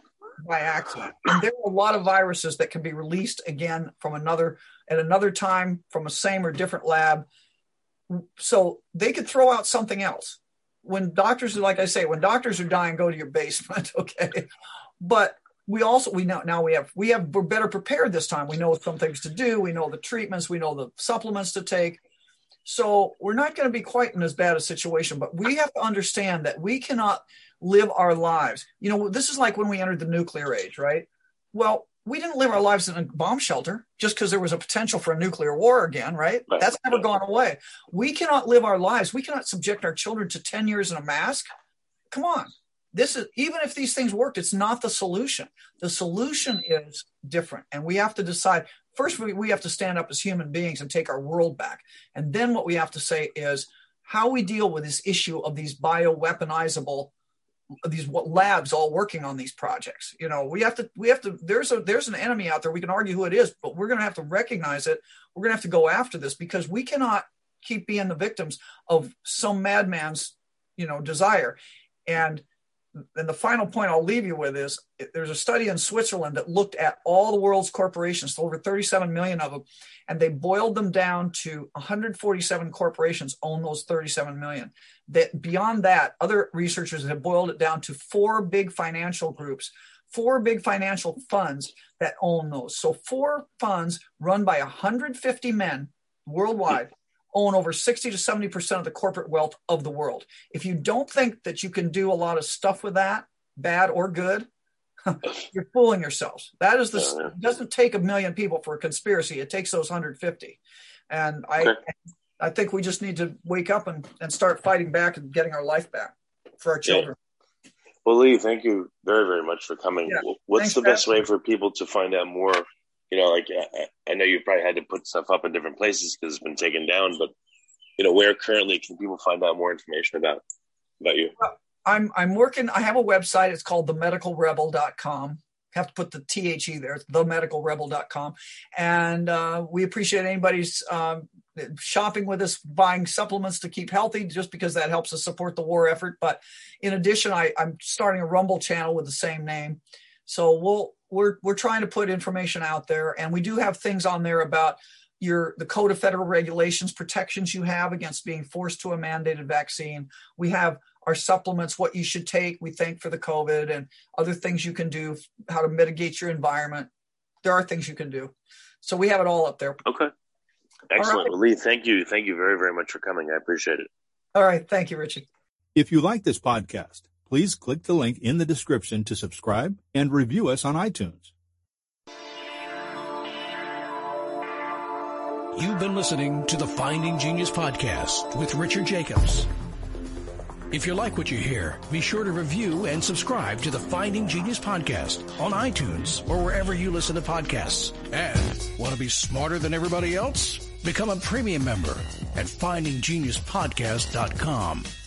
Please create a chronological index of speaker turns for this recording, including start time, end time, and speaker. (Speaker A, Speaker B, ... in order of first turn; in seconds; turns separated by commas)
Speaker A: 0.4-7.2, Speaker A: 8.1-14.5, Speaker A: 15.0-22.0, Speaker A: 22.6-41.5, Speaker A: 42.1-57.1, Speaker A: 57.8-72.4, Speaker A: 73.2-104.5, Speaker A: 105.1-110.6, Speaker A: 111.1-111.8, Speaker A: 112.4-117.2, Speaker B: 118.0-127.3, Speaker A: 120.1-121.0, Speaker B: 128.0-130.4, Speaker B: 131.0-131.3, Speaker A: 131.4-166.9, Speaker A: 167.4-169.8, Speaker B: 170.9-173.9, Speaker A: 171.0-171.3, Speaker A: 174.3-175.3, Speaker C: 175.8-181.3, Speaker D: 185.5-189.5, Speaker D: 190.7-204.9